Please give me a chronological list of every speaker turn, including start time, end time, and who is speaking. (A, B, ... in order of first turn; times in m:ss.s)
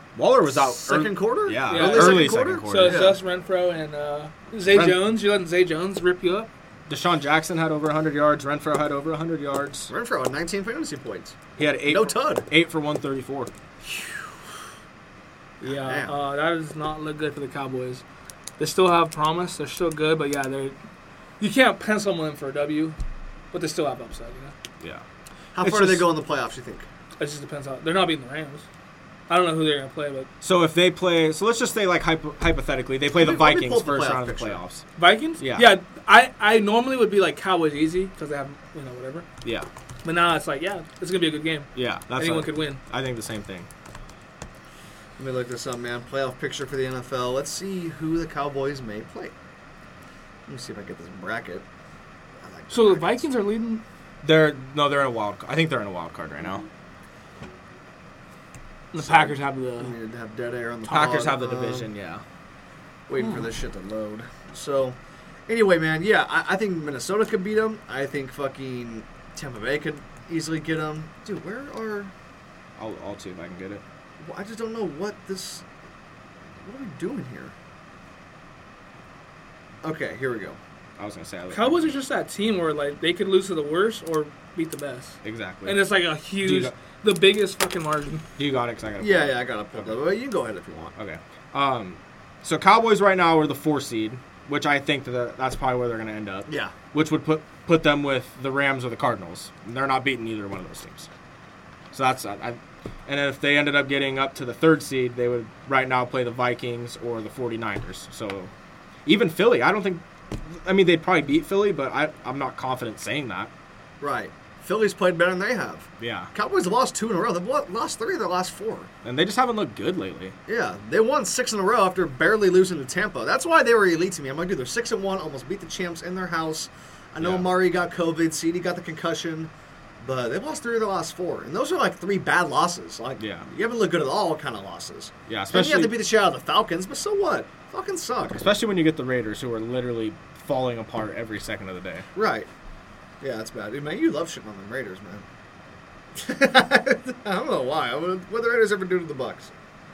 0:00.1-0:03.0 A
0:00.5-0:03.2 B
0:01.7-0:06.5 C
0:04.7-0:05.0 A
0:06.9-0:09.9 A
0:09.9-0:12.5 B
0:11.6-0:13.5 A
0:13.9-0:14.2 B
0:15.6-0:16.1 B
0:15.6-0:18.0 C
0:18.6-0:20.7 C
0:21.4-0:23.0 C
0:23.5-0:24.5 C
0:25.5-0:26.8 B
0:25.6-0:26.1 A
0:27.2-0:28.6 C
0:29.3-0:30.3 C
0:30.4-0:34.8 A
0:33.1-0:34.6 B
0:35.0-0:39.3 C
0:35.4-0:35.7 A
0:40.0-0:42.8 C
0:41.7-0:43.7 A
0:45.2-0:49.3 B
0:50.5-0:51.6 B
0:52.4-0:53.2 B
0:52.7-0:53.8 C
0:54.2-0:56.6 A
0:58.9-0:59.9 C
0:59.0-1:01.9 B
1:00.9-1:02.2 A
1:03.1-1:05.0 B
1:03.2-1:03.5 C
1:05.5-1:12.1 B
1:12.8-1:13.8 A
1:14.2-1:15.6 B
1:16.6-1:17.5 B
1:19.8-1:20.6 B
1:21.0-1:21.9 A
1:21.5-1:28.2 C
1:25.2-1:25.8 A
1:26.4-1:26.7 A
1:28.4-1:29.9 A
1:29.0-1:30.9 B
1:31.0-1:41.1 A
1:36.5-1:36.7 B
1:41.9-1:48.5 A
1:49.0-1:53.5 A
1:54.0-1:58.9 B
1:56.0-1:56.3 A
1:59.0-2:00.4 A
2:00.5-2:18.4 B
2:07.2-2:07.5 A
2:13.2-2:13.5 A
2:15.3-2:16.0 A
2:18.3-2:22.0 A
2:22.1-2:22.5 B
2:23.2-2:25.2 B
2:26.2-2:29.5 B